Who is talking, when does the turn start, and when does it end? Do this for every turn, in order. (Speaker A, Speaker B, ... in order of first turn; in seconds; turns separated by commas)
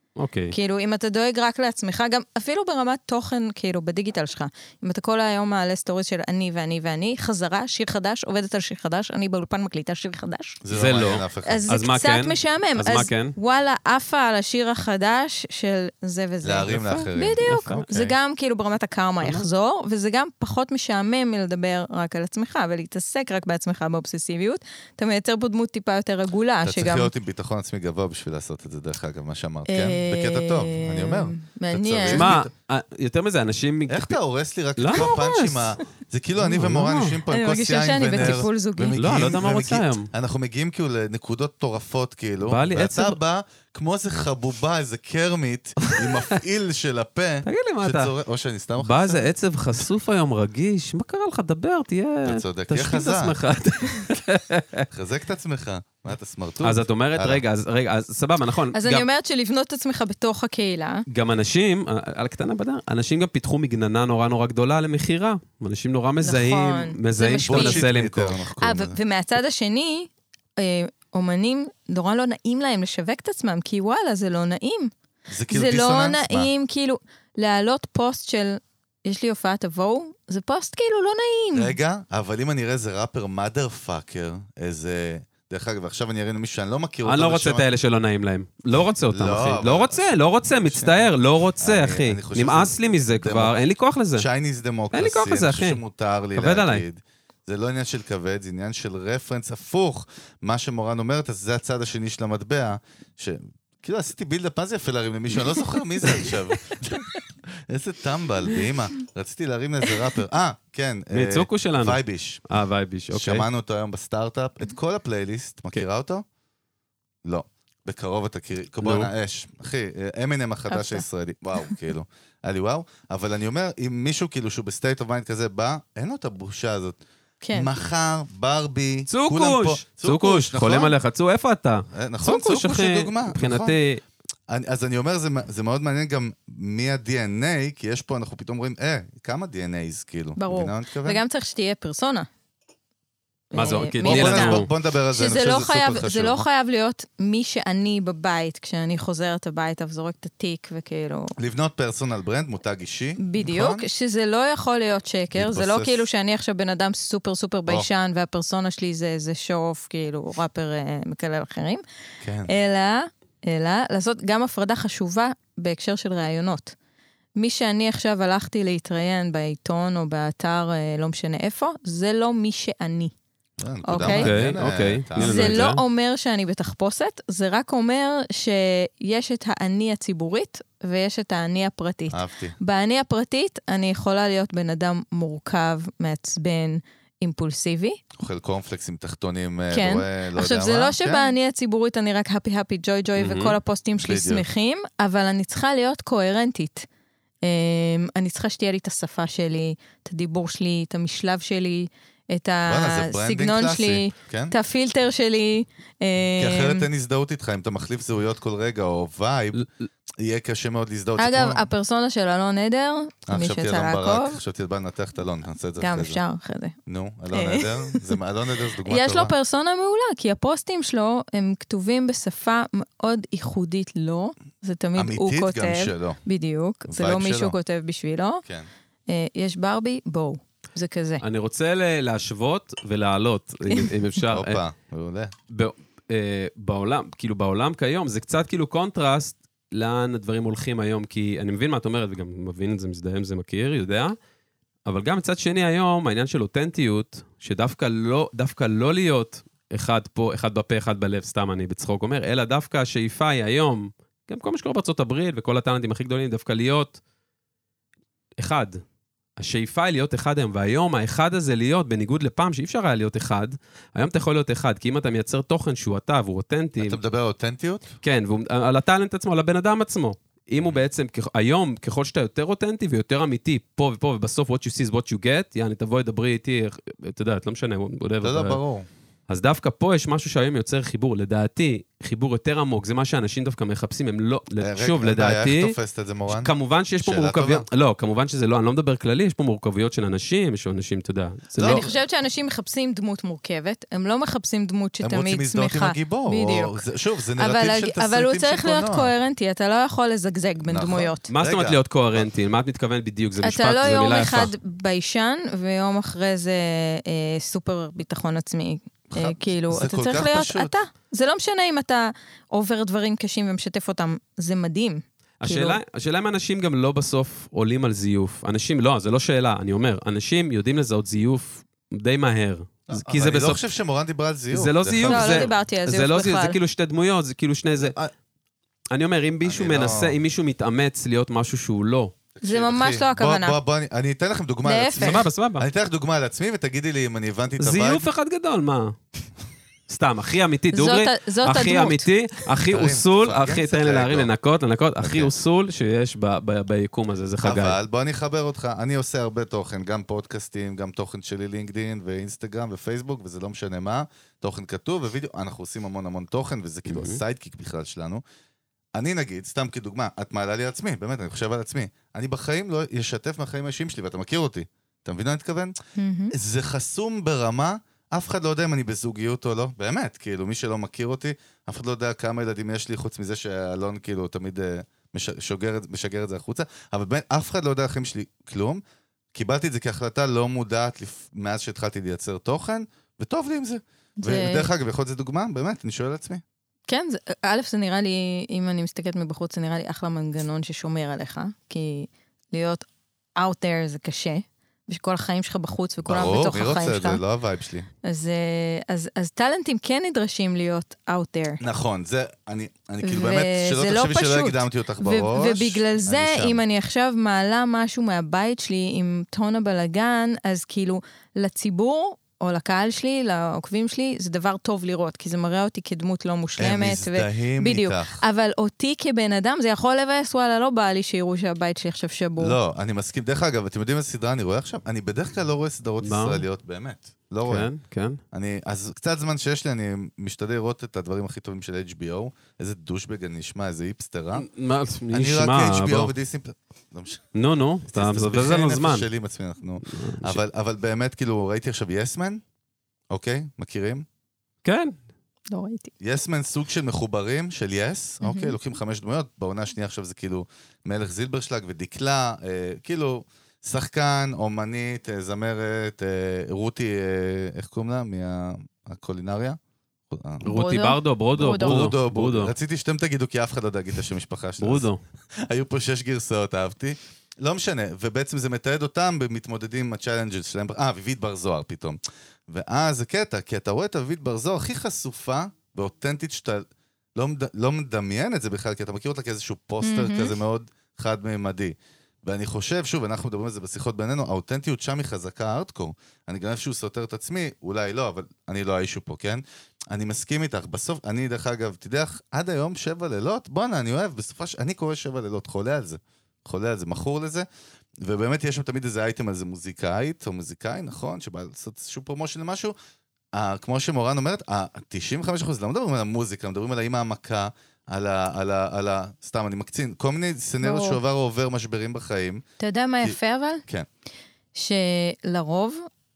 Speaker A: 0.1-0.5, Speaker B: 0.5-10.6, Speaker C: 10.6-11.7, Speaker A: 10.7-13.3, Speaker B: 11.4-27.1, Speaker C: 16.4-18.1, Speaker A: 17.4-17.8, Speaker C: 26.6-32.5, Speaker B: 29.7-32.4, Speaker A: 32.1-34.1, Speaker C: 33.9-49.3, Speaker A: 34.8-35.8, Speaker A: 36.4-37.2, Speaker B: 37.3-39.0, Speaker A: 39.0-40.1, Speaker A: 42.5-43.2, Speaker A: 45.8-46.4, Speaker A: 47.5-48.1, Speaker A: 48.8-54.9, Speaker C: 52.2-53.4, Speaker C: 54.9-57.4, Speaker A: 56.6-59.0, Speaker B: 58.7-61.0, Speaker A: 61.1-68.4, Speaker B: 66.2-67.9, Speaker C: 67.4-69.0, Speaker B: 68.6-74.9, Speaker C: 75.3-76.5, Speaker B: 75.5-81.8, Speaker C: 81.5-87.7, Speaker A: 87.0-94.2, Speaker C: 89.1-90.1, Speaker C: 90.6-91.0, Speaker C: 91.6-93.6, Speaker C: 94.2-112.4, Speaker A: 94.9-95.8, Speaker A: 96.3-96.8, Speaker A: 106.0-106.3, Speaker A: 111.1-113.5, Speaker C: 113.1-116.2, Speaker C: 117.2-127.0, Speaker A: 118.8-119.1, Speaker B: 120.7-121.0, Speaker B: 127.4-127.7, Speaker C: 127.5-130.9, Speaker A: 129.1-134.0, Speaker C: 131.9-133.8, Speaker C: 134.5-141.2, Speaker B: 140.4-142.3, Speaker B: 143.5-151.3, Speaker A: 143.5-144.7, Speaker C: 143.6-146.4, Speaker C: 151.4-153.8, Speaker B: 153.2-161.8, Speaker C: 155.3-156.1, Speaker C: 162.2-162.5, Speaker B: 162.4-166.7, Speaker B: 167.4-173.1, Speaker C: 173.6-175.7, Speaker B: 173.8-174.3, Speaker A: 174.0-175.8, Speaker B: 175.2-188.0, Speaker C: 182.1-182.6, Speaker C: 188.2-191.3, Speaker B: 189.7-196.9, Speaker A: 193.2-193.6, Speaker C: 194.0-194.4, Speaker B: 197.4-206.9, Speaker C: 202.7-204.5, Speaker C: 206.4-209.6, Speaker C: 210.2-211.7, Speaker B: 211.2-214.4, Speaker C: 213.3-216.2, Speaker B: 215.8-216.8, Speaker C: 216.8-219.3, Speaker B: 217.3-218.2, Speaker B: 218.8-228.4, Speaker C: 224.9-226.2, Speaker C: 226.9-227.6, Speaker B: 229.1-231.2, Speaker A: 231.2-234.6, Speaker C: 234.3-235.3, Speaker A: 235.5-244.2, Speaker A: 244.8-257.0, Speaker A: 258.4-258.8, Speaker A: 259.4-267.0, Speaker C: 266.8-267.9, Speaker A: 268.0-278.6, Speaker C: 278.2-278.9, Speaker A: 279.3-285.8, Speaker C: 284.6-287.7, Speaker A: 286.3-291.8, Speaker C: 291.5-291.9, Speaker B: 291.6-296.8, Speaker C: 295.0-299.1, Speaker B: 297.4-301.3, Speaker C: 300.6-302.3, Speaker A: 301.3-304.5, Speaker B: 303.4-315.8, Speaker C: 309.1-310.8, Speaker A: 315.4-323.6, Speaker C: 322.9-325.5, Speaker A: 324.5-327.9, Speaker B: 325.0-326.6, Speaker C: 327.8-328.1, Speaker A: 328.9-332.1, Speaker C: 329.4-330.2, Speaker C: 332.4-338.1, Speaker B: 332.4-333.6, Speaker B: 334.6-335.2, Speaker A: 335.0-335.7, Speaker A: 337.6-338.9, Speaker A: 339.9-347.8, Speaker B: 340.7-342.1, Speaker C: 342.7-344.3, Speaker C: 345.0-345.3, Speaker C: 347.4-358.2, Speaker A: 356.9-357.2, Speaker C: 358.9-365.7, Speaker B: 366.0-366.3, Speaker C: 366.3-378.8, Speaker C: 379.3-386.4, Speaker B: 384.2-384.7, Speaker B: 386.9-392.8, Speaker B: 393.4-397.2, Speaker C: 396.0-397.9, Speaker B: 398.0-401.6, Speaker C: 401.6-406.6, Speaker B: 403.0-422.6, Speaker C: 416.6-418.2, Speaker C: 422.4-427.7, Speaker A: 426.0-426.4, Speaker A: 427.4-428.2, Speaker C: 428.3-434.5, Speaker A: 434.4-436.1, Speaker C: 435.1-437.2, Speaker A: 437.3-439.1, Speaker C: 437.9-442.4, Speaker A: 439.9-440.4, Speaker C: 443.1-444.0, Speaker A: 444.6-444.9, Speaker B: 445.5-445.9, Speaker C: 446.0-459.6, Speaker B: 448.2-448.6, Speaker C: 460.1-460.4, Speaker B: 460.4-461.8, Speaker A: 460.4-462.5, Speaker C: 461.4-464.9, Speaker A: 464.6-465.0, Speaker C: 465.4-497.5, Speaker B: 479.8-480.3, Speaker C: 498.0-502.7, Speaker C: 503.3-512.4, Speaker B: 510.6-511.0, Speaker B: 512.6-513.6, Speaker C: 513.0-513.9, Speaker B: 514.5-515.9